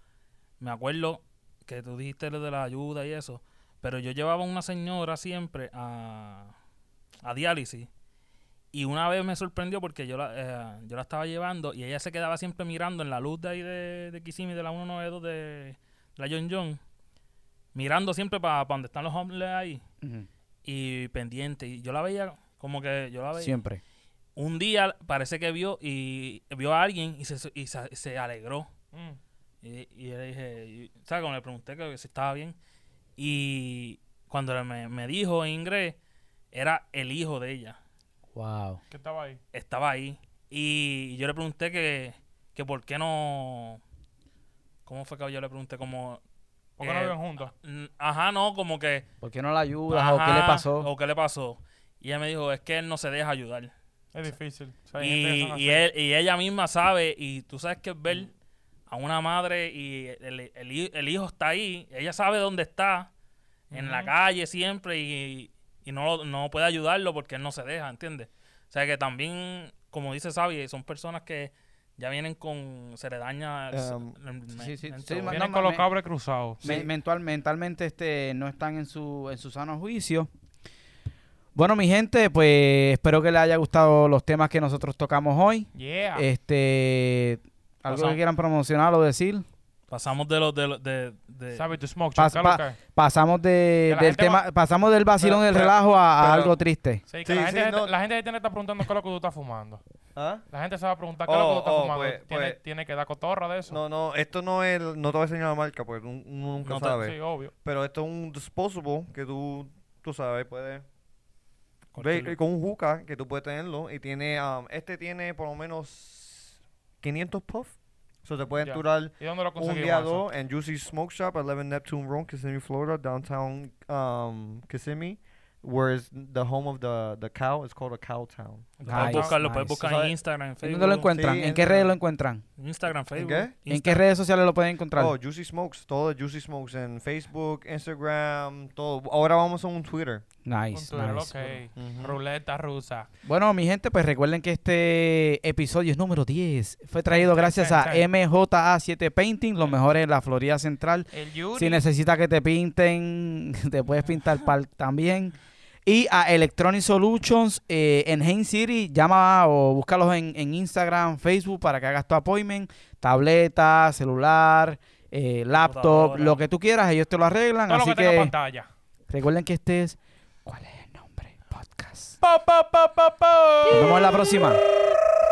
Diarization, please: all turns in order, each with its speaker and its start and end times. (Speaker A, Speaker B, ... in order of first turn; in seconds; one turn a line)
Speaker A: 0.6-6.5
Speaker A: 7.2-7.9
Speaker A: 8.7-16.8
Speaker A: 17.7-19.8
Speaker B: 20.0-20.3
Speaker A: 20.6-23.6
Speaker B: 23.4-23.8
Speaker A: 24.4-28.7
Speaker C: 28.9-29.2
Speaker A: 29.6-32.6
Speaker A: 33.2-36.0
Speaker A: 36.5-37.8
Speaker B: 38.3-38.8
Speaker C: 38.9-39.4
Speaker A: 39.5-43.8
Speaker A: 44.9-46.2
Speaker C: 46.8-47.5
Speaker A: 46.8-49.0
Speaker B: 49.2-50.9
Speaker A: 49.9-53.7
Speaker C: 54.1-55.8
Speaker A: 55.0-58.3
Speaker A: 58.9-63.1
Speaker A: 63.7-75.4
Speaker C: 63.7-64.1
Speaker D: 73.7-74.1
Speaker B: 74.5-75.9
Speaker C: 75.3-76.7
Speaker D: 76.6-76.9
Speaker B: 76.6-80.3
Speaker B: 81.5-89.4
Speaker C: 85.7-86.3
Speaker C: 87.9-88.2
Speaker A: 89.9-91.6
Speaker C: 91.5-92.8
Speaker B: 92.2-97.0
Speaker C: 93.9-94.4
Speaker D: 95.2-96.5
Speaker C: 97.1-99.8
Speaker D: 97.2-97.9
Speaker D: 100.2-100.4
Speaker C: 100.5-103.8
Speaker D: 101.2-102.6
Speaker D: 103.7-110.8
Speaker C: 106.6-107.5
Speaker A: 111.9-112.3
Speaker D: 112.0-128.9
Speaker C: 118.6-120.2
Speaker A: 128.8-131.1
Speaker B: 128.8-129.8
Speaker C: 128.9-129.3
Speaker D: 129.8-130.1
Speaker B: 130.6-132.4
Speaker D: 131.1-131.9
Speaker A: 132.6-134.0
Speaker D: 133.1-133.5
Speaker B: 133.7-135.1
Speaker D: 134.9-140.2
Speaker B: 140.4-141.6
Speaker C: 140.7-143.1
Speaker D: 141.8-142.2
Speaker B: 143.2-168.3
Speaker C: 147.1-148.0
Speaker C: 151.1-151.8
Speaker A: 165.6-166.4
Speaker C: 167.7-168.7
Speaker B: 169.1-172.2
Speaker C: 172.2-174.4
Speaker B: 173.7-174.6